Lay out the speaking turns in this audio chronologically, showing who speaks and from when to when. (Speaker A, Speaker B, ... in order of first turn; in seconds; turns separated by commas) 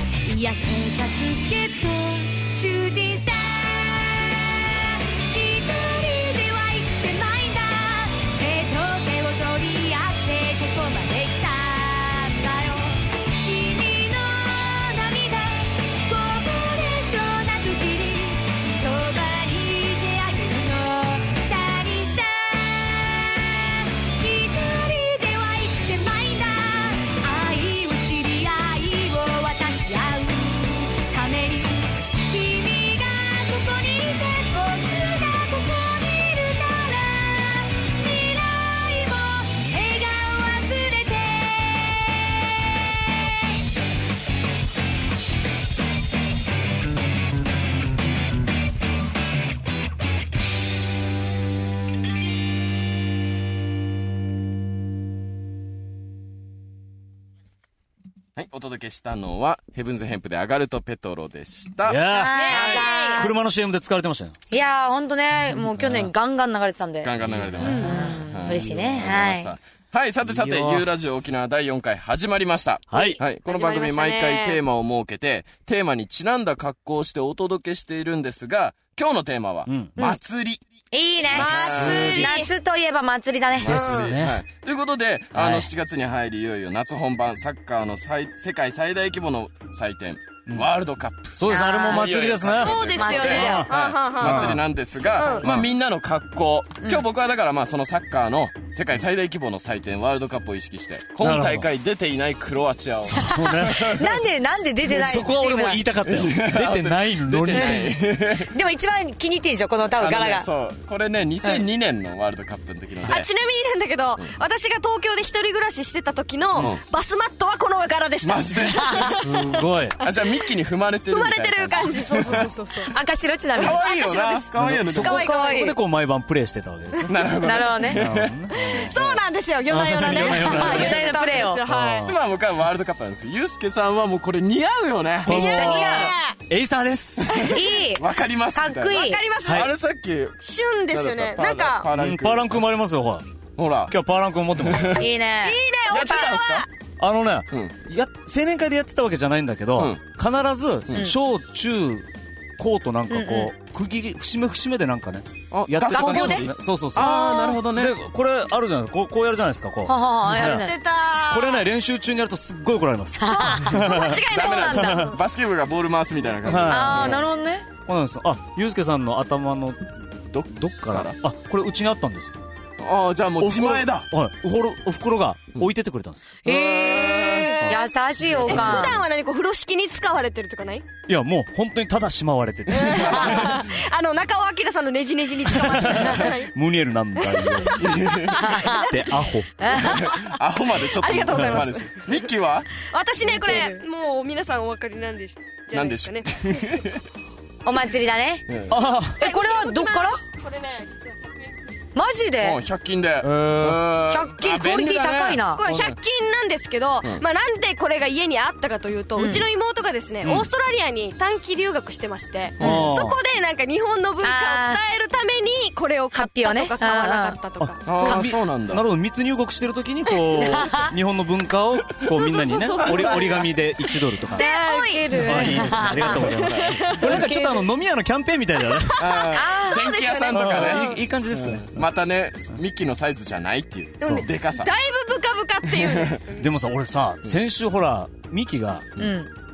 Speaker A: 0.2-42.2, Speaker B: 58.4-62.9, Speaker C: 61.8-64.4, Speaker D: 62.1-63.3, Speaker E: 62.3-63.3, Speaker D: 64.5-67.1, Speaker C: 65.5-66.1, Speaker B: 67.0-80.6, Speaker C: 67.2-69.0, Speaker E: 67.6-68.0, Speaker D: 67.8-69.5, Speaker C: 70.2-70.9, Speaker C: 72.9-73.2, Speaker E: 73.5-74.6, Speaker C: 79.7-79.9, Speaker D: 80.9-83.9, Speaker B: 81.3-82.3, Speaker E: 81.3-82.5, Speaker C: 81.7-82.3, Speaker B: 83.6-104.1, Speaker C: 83.7-84.4, Speaker E: 83.7-84.2, Speaker C: 85.3-85.7, Speaker C: 91.3-94.6, Speaker D: 91.5-92.2, Speaker E: 92.6-94.6, Speaker D: 93.0-93.7, Speaker E: 95.1-95.5, Speaker C: 95.2-95.7, Speaker C: 101.2-101.7, Speaker C: 103.0-104.2, Speaker D: 103.2-105.8, Speaker C: 104.8-108.0, Speaker B: 106.0-108.5, Speaker D: 107.5-110.5, Speaker B: 110.0-113.3, Speaker E: 113.1-120.5, Speaker B: 118.2-119.2, Speaker C: 119.0-120.0, Speaker B: 120.0-122.5, Speaker E: 121.1-122.9, Speaker D: 122.9-123.8, Speaker B: 123.6-125.3, Speaker E: 123.6-125.7, Speaker C: 124.6-128.9, Speaker D: 125.0-125.8, Speaker B: 127.1-129.2, Speaker D: 127.4-128.1, Speaker E: 128.6-132.1, Speaker C: 129.7-132.2, Speaker D: 130.4-131.6, Speaker B: 132.1-136.1, Speaker E: 135.3-136.4, Speaker C: 135.3-137.3, Speaker D: 135.3-136.2, Speaker B: 137.2-140.4, Speaker D: 137.5-139.2, Speaker E: 138.9-139.7, Speaker C: 139.4-139.7, Speaker E: 140.4-141.9, Speaker B: 140.9-142.6, Speaker C: 141.9-143.3, Speaker B: 143.6-144.0, Speaker C: 143.9-145.1, Speaker B: 144.6-145.1, Speaker D: 145.0-146.1, Speaker E: 145.4-146.7, Speaker B: 145.9-146.7, Speaker C: 147.0-160.7, Speaker D: 153.1-153.5, Speaker B: 155.5-157.9, Speaker D: 155.9-156.5, Speaker E: 157.0-157.6, Speaker D: 159.9-160.8, Speaker E: 160.4-161.7, Speaker C: 161.3-164.2, Speaker D: 163.2-165.2, Speaker E: 163.3-165.0, Speaker B: 164.3-167.2, Speaker C: 164.8-165.1, Speaker C: 166.4-167.2, Speaker D: 166.6-167.7, Speaker C: 167.8-172.4, Speaker B: 170.3-171.2, Speaker B: 172.8-174.1, Speaker C: 173.4-176.3, Speaker D: 176.4-179.0, Speaker B: 176.5-177.5, Speaker E: 176.8-177.8, Speaker E: 178.4-180.8, Speaker B: 178.5-178.9, Speaker C: 181.1-183.7, Speaker E: 182.7-186.5, Speaker B: 182.9-183.7, Speaker C: 185.5-189.7, Speaker E: 187.2-189.2, Speaker B: 187.8-188.4, Speaker D: 188.4-188.9, Speaker D: 189.6-190.2, Speaker B: 189.8-192.9, Speaker E: 190.0-190.4, Speaker E: 190.9-192.2, Speaker C: 191.3-191.7, Speaker E: 192.8-196.3, Speaker D: 193.4-193.8, Speaker B: 195.7-197.0, Speaker D: 197.7-198.5, Speaker B: 198.5-198.8, Speaker C: 198.7-199.2, Speaker E: 199.1-201.4, Speaker D: 199.2-200.2, Speaker D: 201.9-202.6, Speaker B: 202.4-205.9, Speaker C: 203.2-203.8, Speaker D: 204.1-205.6, Speaker E: 205.6-218.2, Speaker D: 209.2-209.5, Speaker C: 210.2-210.5, Speaker B: 212.6-212.9, Speaker C: 212.6-213.2, Speaker D: 212.6-212.9, Speaker D: 214.2-214.8, Speaker D: 216.1-217.4, Speaker C: 217.6-224.5, Speaker B: 217.9-218.8, Speaker D: 220.4-220.9, Speaker E: 222.1-227.6, Speaker B: 222.8-223.5, Speaker D: 224.3-226.5, Speaker C: 225.1-229.1, Speaker B: 226.0-227.2, Speaker E: 228.7-230.9, Speaker B: 229.0-234.7, Speaker D: 229.3-229.9, Speaker C: 230.3-231.8, Speaker E: 234.0-236.5, Speaker C: 234.0-234.3, Speaker B: 235.7-236.2, Speaker C: 236.4-238.9, Speaker D: 239.0-239.3